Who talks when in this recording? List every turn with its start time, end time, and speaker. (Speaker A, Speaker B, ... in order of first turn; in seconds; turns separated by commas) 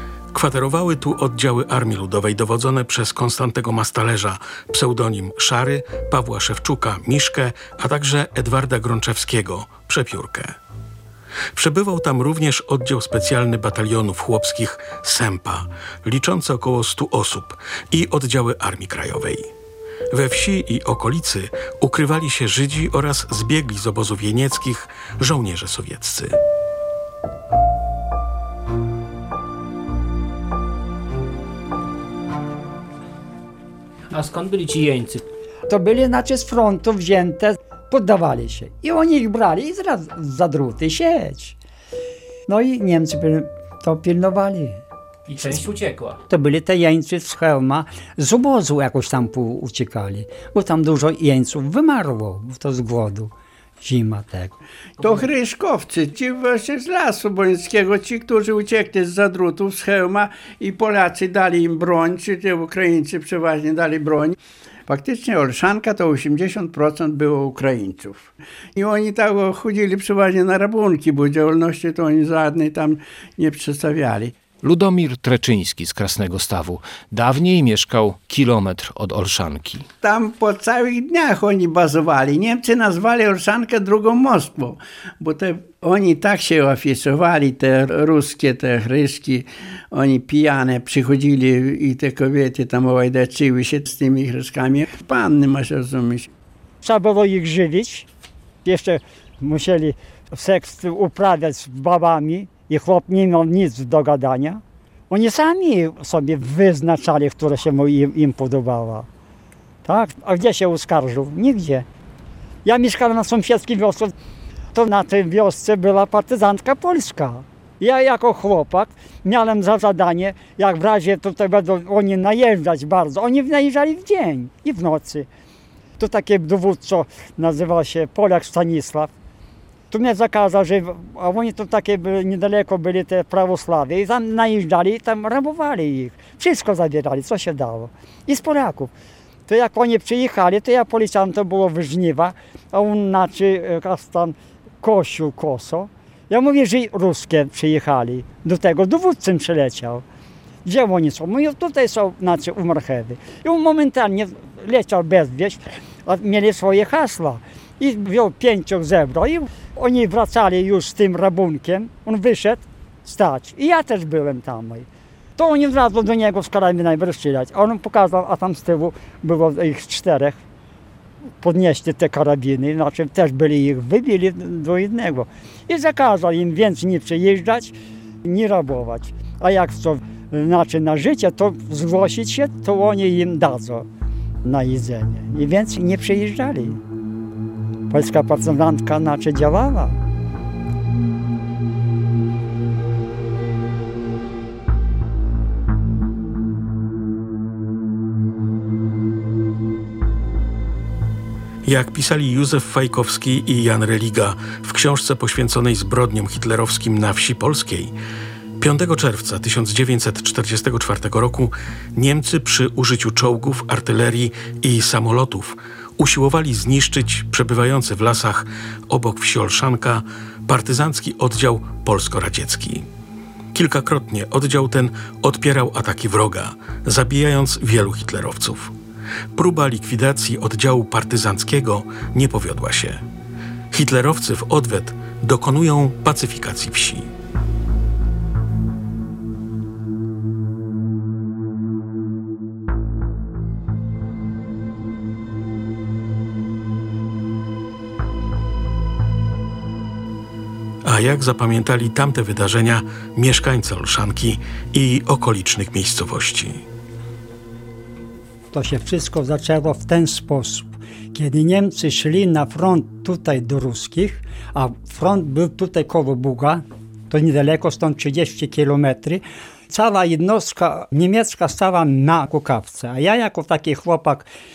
Speaker A: 0.3-10.6, Speaker A: 11.5-19.5, Speaker A: 20.1-26.4, Speaker B: 34.1-35.2, Speaker C: 35.7-41.6, Speaker C: 42.5-44.8, Speaker B: 45.3-46.2, Speaker C: 46.3-54.6, Speaker D: 55.0-64.4, Speaker B: 55.0-55.3, Speaker D: 64.9-74.3, Speaker E: 74.6-79.9, Speaker D: 80.0-96.3, Speaker C: 96.8-98.1, Speaker C: 98.7-109.1, Speaker C: 109.8-111.9, Speaker C: 112.7-114.1, Speaker C: 114.7-125.3, Speaker C: 126.0-129.1, Speaker C: 129.9-138.9, Speaker C: 139.5-150.1, Speaker C: 150.6-170.4, Speaker C: 171.4-183.9, Speaker C: 184.4-186.8, Speaker C: 187.9-190.0, Speaker A: 201.7-207.9, Speaker A: 208.6-222.8, Speaker A: 223.5-228.7, Speaker A: 229.3-233.0, Speaker A: 233.7-237.1, Speaker A: 250.8-256.6, Speaker C: 258.5-274.3